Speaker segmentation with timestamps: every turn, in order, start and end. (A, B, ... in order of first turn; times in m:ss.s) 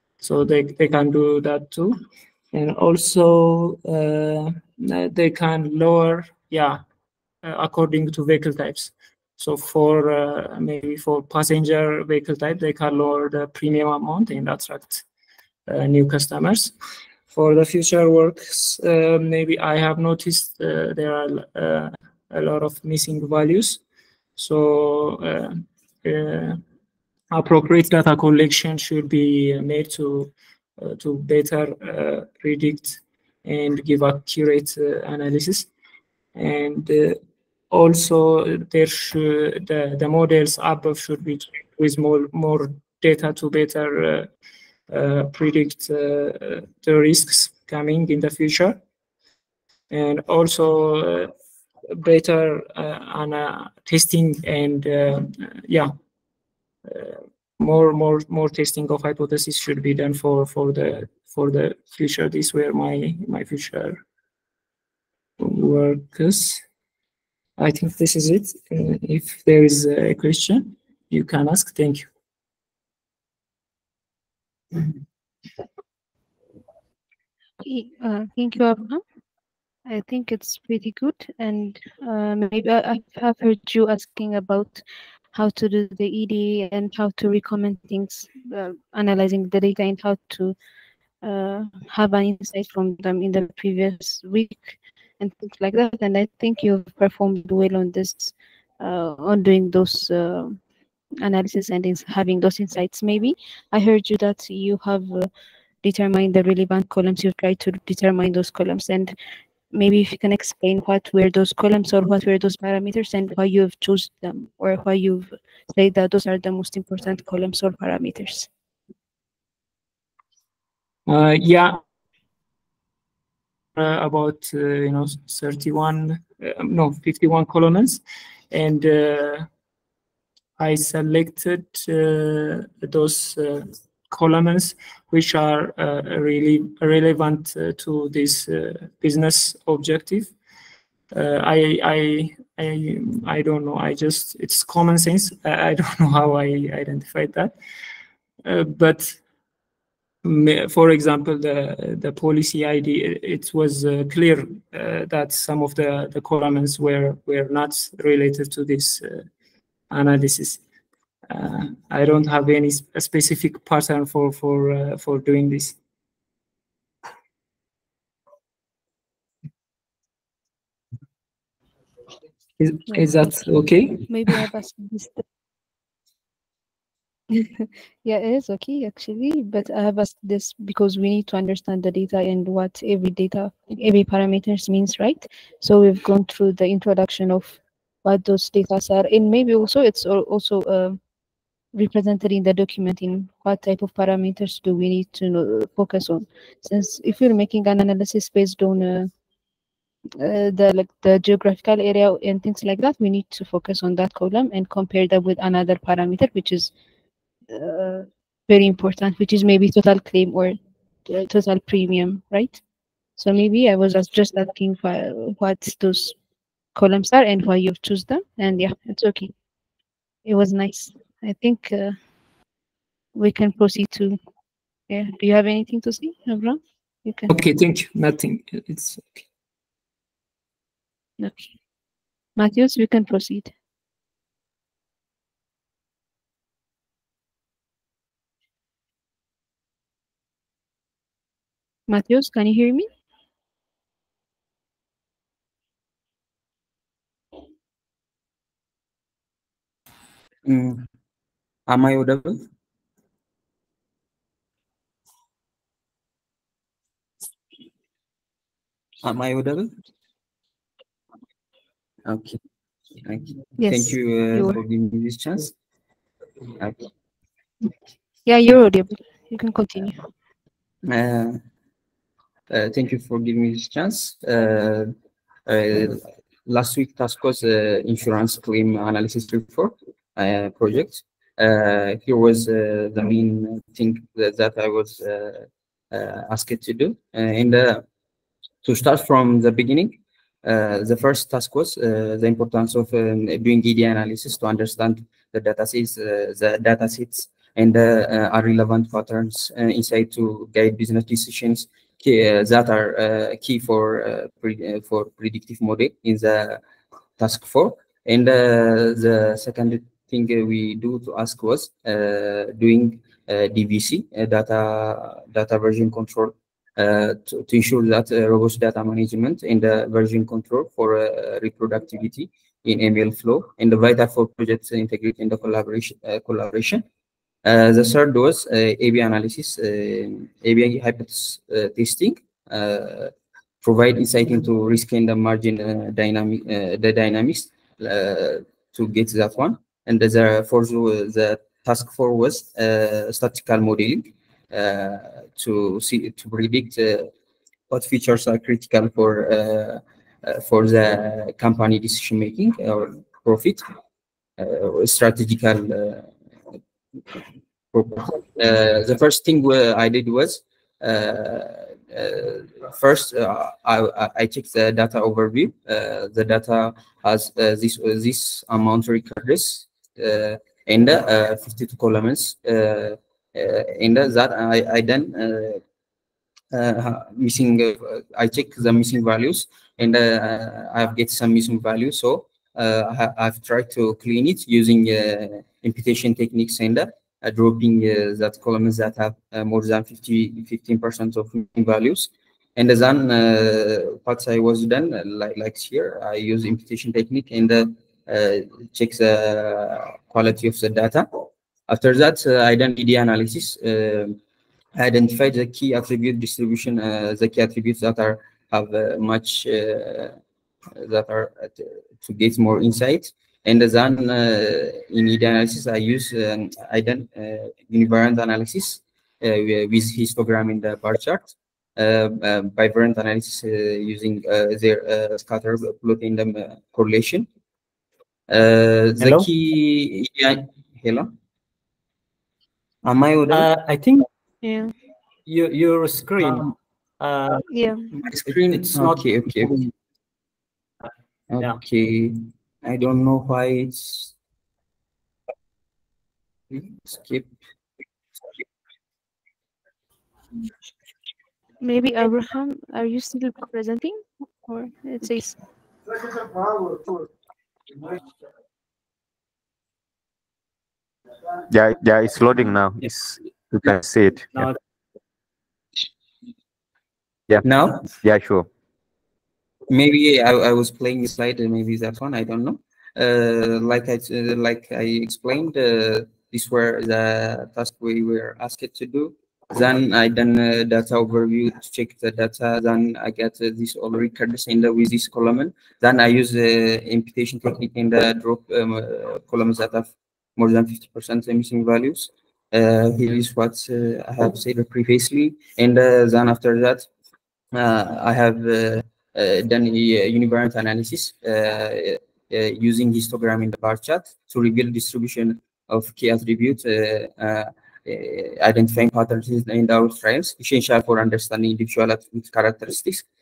0:00.2-0:02.0 A
0:02.5-0:06.8 A
0:07.4-0:15.0 A
0:15.7-0:16.7 A
0:17.3-0:23.8 A
0:24.4-0:26.6 A
0:27.3-0:35.7 A
0:36.3-0:37.2 A
0:37.7-0:44.3 A
0:44.9-0:48.8 A
0:49.9-0:51.3 A
0:51.9-0:55.9 A
0:56.9-1:04.0 A
1:05.4-1:06.6 A
1:07.6-1:12.1 A
1:17.6-1:19.0 B
1:19.8-1:24.8 B
1:25.3-1:30.5 B
1:31.2-1:40.6 B
1:41.2-1:45.3 B
1:45.8-1:49.1 B
1:49.7-1:58.5 B
2:01.1-2:01.8 A
2:03.8-2:09.5 A
2:10.6-2:20.3 A
2:21.1-2:27.6 A
2:28.4-2:29.2 A
2:30.2-2:39.2 A
2:39.9-2:40.6 A
2:41.3-2:45.8 A
2:52.6-2:54.4 A
2:54.1-2:55.2 B
2:57.3-3:11.0 B
3:11.7-3:19.1 B
3:20.2-3:26.7 B
3:27.5-3:32.6 B
3:33.2-3:36.1 B
3:36.7-3:39.3 B
3:40.2-3:42.0 B
3:43.1-3:44.2 B
3:44.9-3:47.3 B
3:47.3-3:49.1 A
3:51.2-3:51.5 B
3:52.4-3:53.5 B
4:01.9-4:02.9 B
4:10.4-4:10.8 C
4:11.7-4:12.4 C
4:19.0-4:19.7 C
4:22.0-4:22.4 C
4:23.0-4:25.5 C
4:23.6-4:24.6 B
4:26.6-4:26.9 C
4:28.2-4:30.0 B
4:30.8-4:31.4 C
4:32.5-4:34.9 C
4:35.4-4:47.8 C
4:48.6-5:06.6 C
5:07.2-5:26.8 C
5:27.4-5:47.1 C
5:47.7-5:53.6 C
5:54.4-5:56.1 C
5:57.7-6:15.6 C
6:16.5-6:44.2 C
6:44.8-6:50.2 C
6:50.8-7:07.3 C
7:08.3-7:11.1 C
7:09.0-7:09.3 D
7:12.8-7:13.5 C
7:13.3-7:14.0 D
7:14.4-7:14.7 B
7:15.2-7:17.4 D
7:16.2-7:16.5 C
7:17.5-7:17.8 B
7:17.9-7:19.7 C
7:18.7-7:19.0 D
7:21.3-7:24.1 C
7:26.5-7:27.3 C
7:31.6-7:35.4 B
7:41.5-7:44.5 E
7:47.4-7:47.8 C
7:48.0-7:48.5 E
7:49.7-8:16.9 C
8:17.5-8:33.0 C